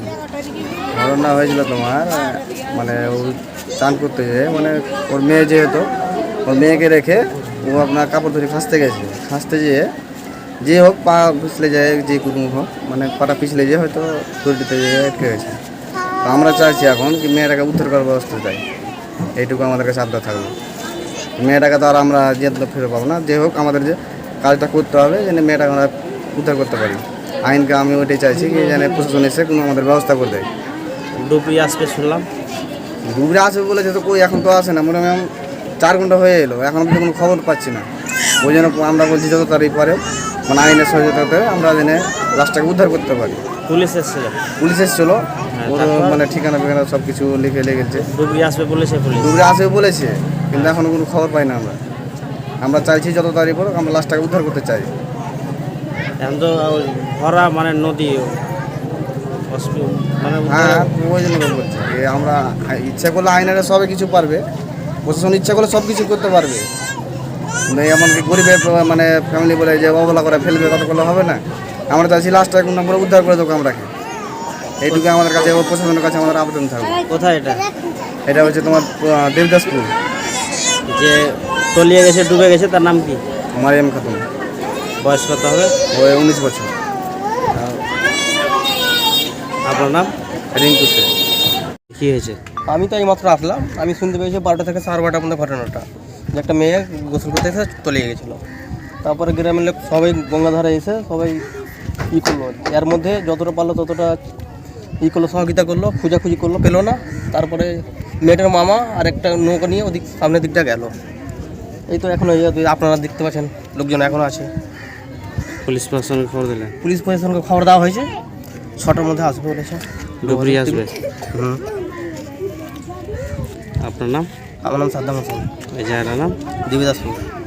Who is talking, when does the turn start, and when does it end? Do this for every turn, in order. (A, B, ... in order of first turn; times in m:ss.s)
0:01.0-0:05.9 A
0:06.4-0:09.9 A
0:10.6-0:15.6 A
0:16.2-0:18.6 A
0:19.4-0:20.5 A
0:21.4-0:30.5 A
0:31.2-0:32.3 B
0:33.1-0:35.2 A
0:35.8-0:37.9 A
0:38.4-0:43.4 A
0:43.7-0:44.4 B
0:44.6-0:48.1 A
0:45.6-0:46.2 B
0:48.1-0:49.3 B
0:49.2-0:51.8 A
0:52.6-0:54.9 A
0:56.2-0:58.3 B
0:59.5-1:00.9 B
1:00.5-1:04.4 A
1:05.0-1:06.7 A
1:07.7-1:13.9 A
1:14.8-1:17.0 A
1:14.9-1:15.6 B
1:17.1-1:17.6 B
1:18.3-1:19.9 A
1:20.9-1:23.2 B
1:23.6-1:24.2 A
1:25.0-1:25.7 B
1:25.9-1:26.7 A
1:29.7-1:30.1 B
1:30.5-1:31.1 A
1:31.9-1:32.4 B
1:32.7-1:38.4 C
1:39.0-1:41.4 C
1:42.1-1:44.2 C
1:45.0-1:50.9 C
1:51.9-1:54.5 C
1:55.6-1:56.7 B
1:56.8-1:58.1 C
1:58.8-2:01.6 C
2:00.2-2:01.0 B
2:03.8-2:04.3 B
2:04.6-2:05.5 C
2:05.7-2:06.4 B
2:06.7-2:07.2 C